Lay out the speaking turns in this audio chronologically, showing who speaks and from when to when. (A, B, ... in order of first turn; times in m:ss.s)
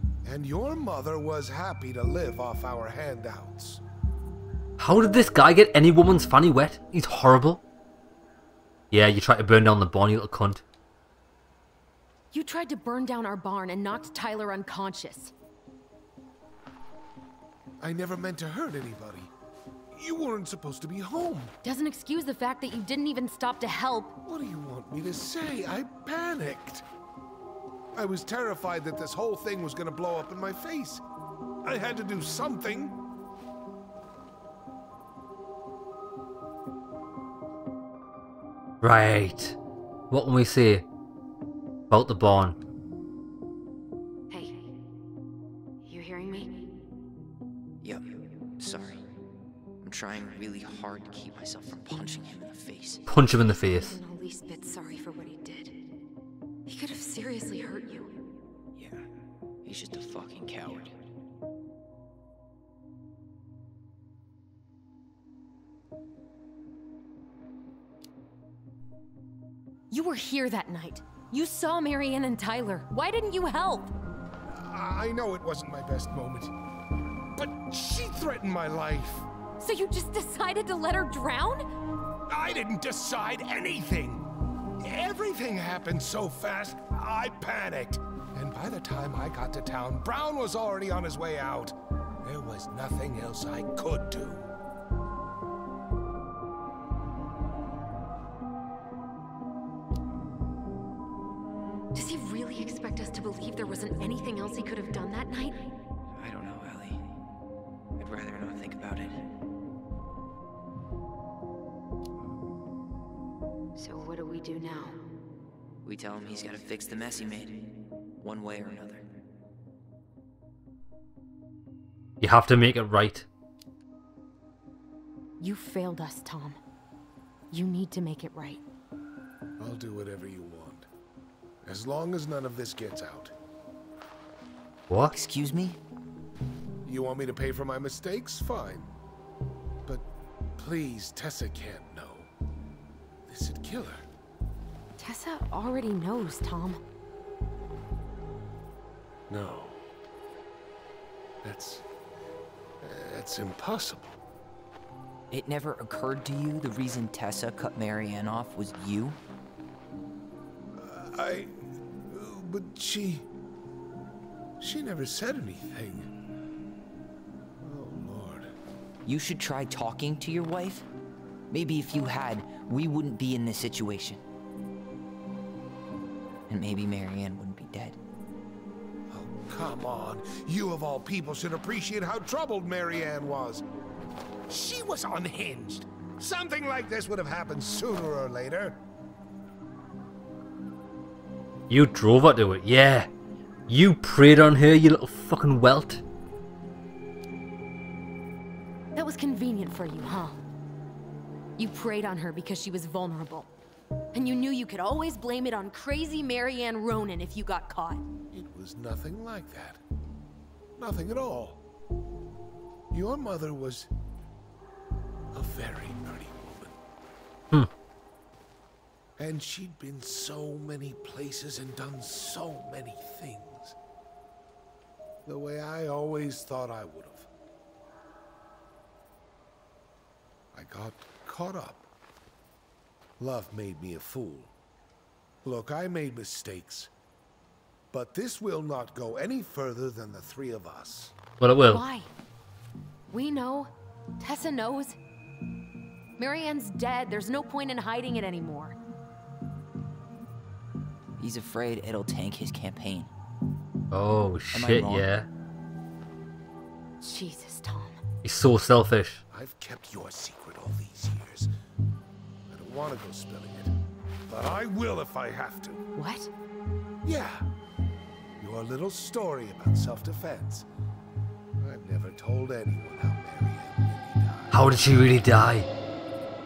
0:00.2-0:03.8 A
0:04.8-0:07.6 B
0:08.9-0:10.6 B
0:12.3-0:15.3 C
0:17.8-0:19.3 A
0:19.9-0:21.5 A
0:21.6-0:24.1 C
0:24.2-0:26.8 A
0:28.0-0:31.0 A
0:31.6-0:33.0 A
0:38.8-0:39.6 B
0:40.1-0:40.8 B
0:41.9-0:42.6 B
0:44.3-0:44.6 C
0:45.8-0:46.6 C
0:47.8-0:49.0 D
0:49.8-0:53.0 D
0:53.1-0:54.0 B
0:53.5-0:55.7 C
0:56.6-0:58.1 C
0:58.8-0:59.0 D
0:59.6-1:01.0 D
1:09.9-1:13.9 C
1:14.5-1:16.5 A
1:17.3-1:19.3 A
1:19.6-1:21.6 C
1:22.3-1:34.5 A
1:41.9-1:45.6 C
1:46.2-1:47.1 D
1:48.0-1:49.3 D
1:53.8-1:55.0 C
1:55.8-1:59.1 D
2:02.2-2:03.3 B
2:05.4-2:06.6 C
2:07.5-2:08.6 C
2:09.6-2:10.8 A
2:11.6-2:13.3 A
2:14.9-2:15.2 B
2:15.1-2:15.8 D
2:16.8-2:18.9 A
2:20.6-2:22.3 A
2:23.3-2:24.0 A
2:25.0-2:26.8 C
2:29.3-2:29.8 A
2:31.4-2:31.8 A
2:32.8-2:34.2 A
2:35.3-2:39.2 D
2:40.8-2:41.5 A
2:42.1-2:43.3 A
2:44.6-2:46.1 A
2:47.6-2:48.5 A
2:49.0-2:50.9 D
2:51.5-2:54.2 D
2:56.5-2:58.0 D
2:59.1-3:03.6 A
3:04.5-3:08.8 A
3:11.7-3:13.1 B
3:13.7-3:16.0 B
3:18.9-3:20.4 C
3:21.6-3:23.5 C
3:24.1-3:28.0 C
3:28.3-3:29.8 A
3:30.8-3:31.6 A
3:32.9-3:33.9 A
3:35.3-3:36.8 A
3:39.2-3:43.7 A
3:45.2-3:47.3 A
3:50.5-3:51.8 A
3:53.2-3:54.5 A
3:55.4-3:56.9 A
3:57.9-4:01.1 A
4:01.4-4:01.8 B
4:01.7-4:02.1 C
4:03.1-4:05.0 C
4:06.2-4:08.8 C
4:11.2-4:13.1 D
4:13.9-4:15.3 B
4:14.5-4:15.1 D
4:17.0-4:18.0 C
4:18.2-4:19.2 B
4:19.3-4:21.5 A
4:22.5-4:23.7 A
4:24.3-4:25.8 A
4:25.9-4:26.3 C
4:27.0-4:27.4 A
4:28.4-4:30.6 A
4:31.6-4:34.6 A
4:34.5-4:35.7 B